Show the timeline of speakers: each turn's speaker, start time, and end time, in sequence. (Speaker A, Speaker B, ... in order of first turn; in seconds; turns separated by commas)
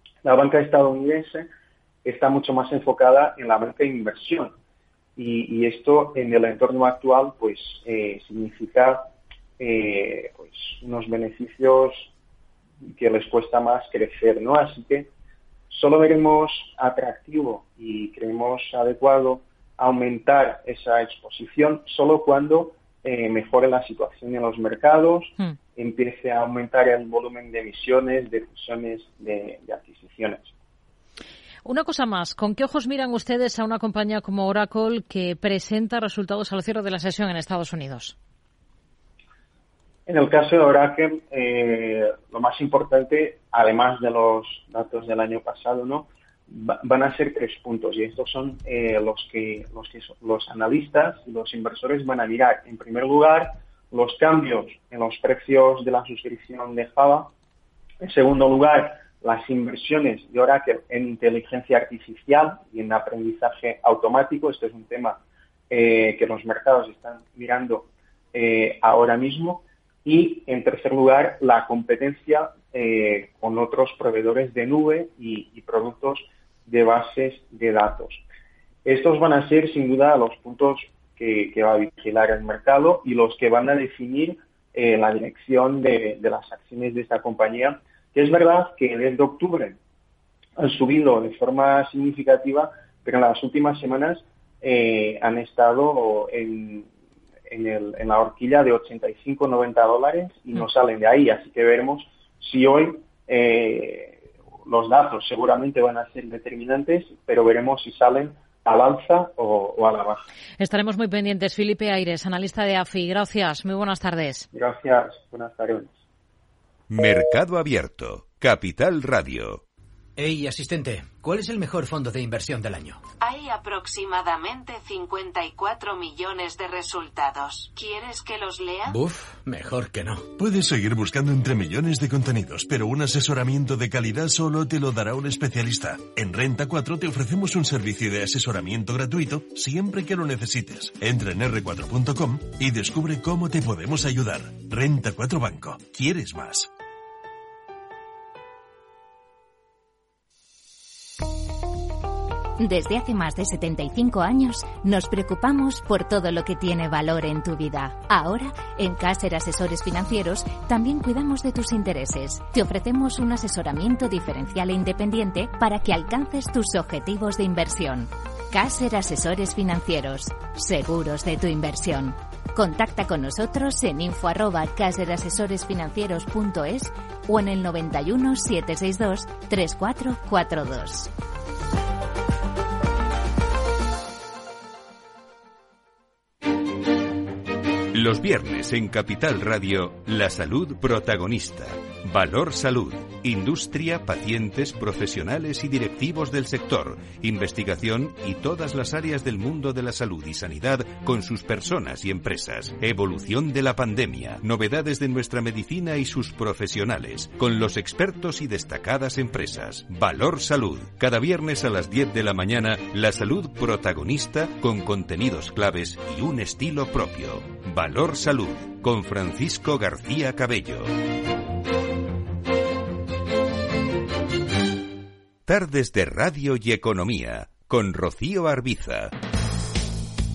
Speaker A: 0.2-1.5, Speaker A: 2.0-4.5, Speaker A: 5.2-12.1, Speaker A: 12.8-15.1, Speaker A: 15.7-30.5, Speaker B: 31.6-38.1, Speaker A: 40.0-57.3, Speaker A: 58.0-65.2, Speaker A: 65.7-78.2, Speaker A: 78.8-89.8, Speaker A: 90.6-96.9, Speaker A: 97.5-110.2, Speaker B: 110.6-114.5, Speaker A: 114.5-115.9, Speaker C: 116.9-119.6, Speaker D: 120.2-123.0, Speaker E: 123.2-129.0, Speaker D: 128.9-130.3, Speaker F: 130.3-146.7, Speaker G: 152.6-181.1, Speaker C: 187.9-220.9, Speaker C: 225.4-229.1